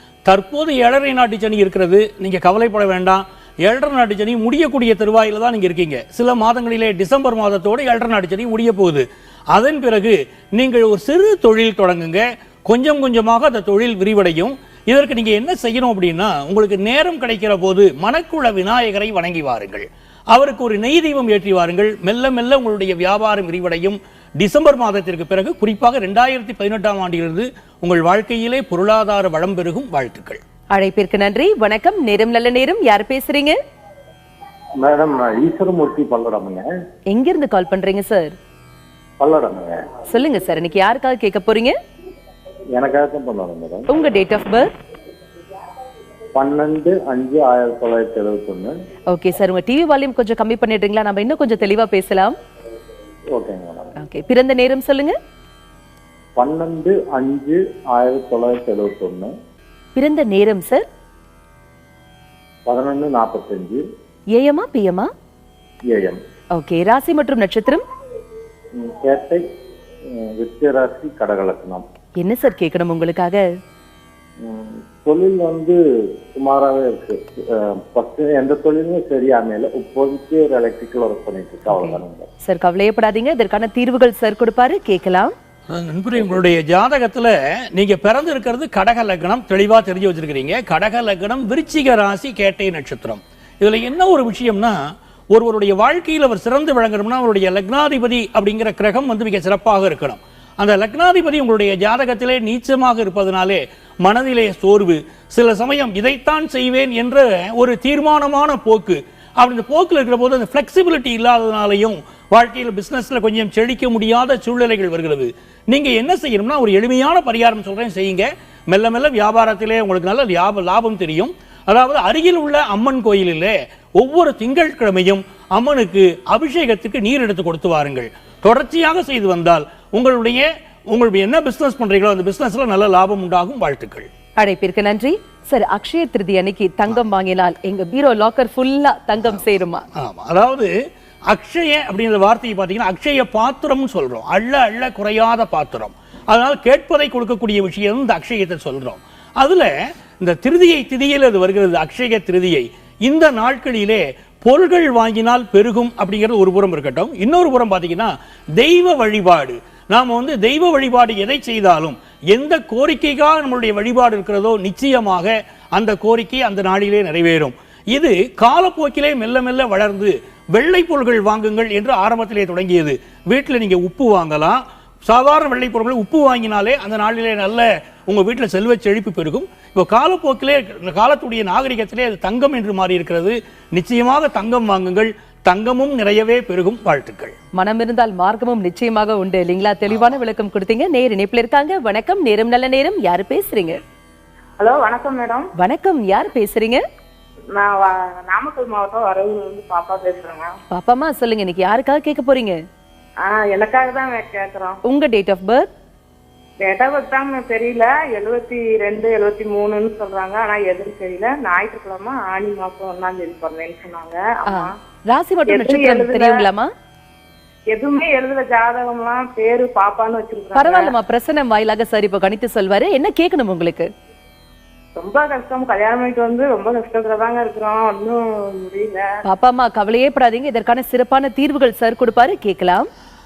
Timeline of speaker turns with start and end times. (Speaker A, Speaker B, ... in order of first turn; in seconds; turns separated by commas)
Speaker A: 0.3-30.4, Speaker B: 30.8-33.6, Speaker C: 34.8-36.7, Speaker B: 37.1-38.4, Speaker C: 39.2-39.9, Speaker B: 40.1-41.8, Speaker C: 42.8-43.9, Speaker B: 43.9-44.7, Speaker C: 46.4-48.7, Speaker B: 49.1-52.4, Speaker C: 53.4-54.0, Speaker B: 54.0-55.2, Speaker C: 56.4-59.3, Speaker B: 60.0-60.9, Speaker C: 62.7-63.8, Speaker B: 64.3-65.1, Speaker C: 65.9-66.2, Speaker B: 66.6-67.8, Speaker C: 68.8-69.4, Speaker C: 70.2-71.8, Speaker B: 72.2-73.5, Speaker C: 74.4-75.8, Speaker C: 76.3-82.3, Speaker B: 81.7-85.3, Speaker A: 85.7-94.8, Speaker A: 95.3-134.1, Speaker B: 134.4-139.9, Speaker A: 140.0-140.7, Speaker A: 141.3-187.4, Speaker B: 187.6-193.8, Speaker D: 194.6-195.5, Speaker B: 195.6-196.8, Speaker D: 197.6-200.5, Speaker B: 200.7-202.6, Speaker D: 203.2-204.8, Speaker B: 204.8-205.7, Speaker D: 206.6-214.7, Speaker B: 214.5-216.7, Speaker D: 215.5-216.5, Speaker D: 217.7-220.9, Speaker B: 220.5-223.9, Speaker D: 225.0-229.1, Speaker B: 229.2-232.9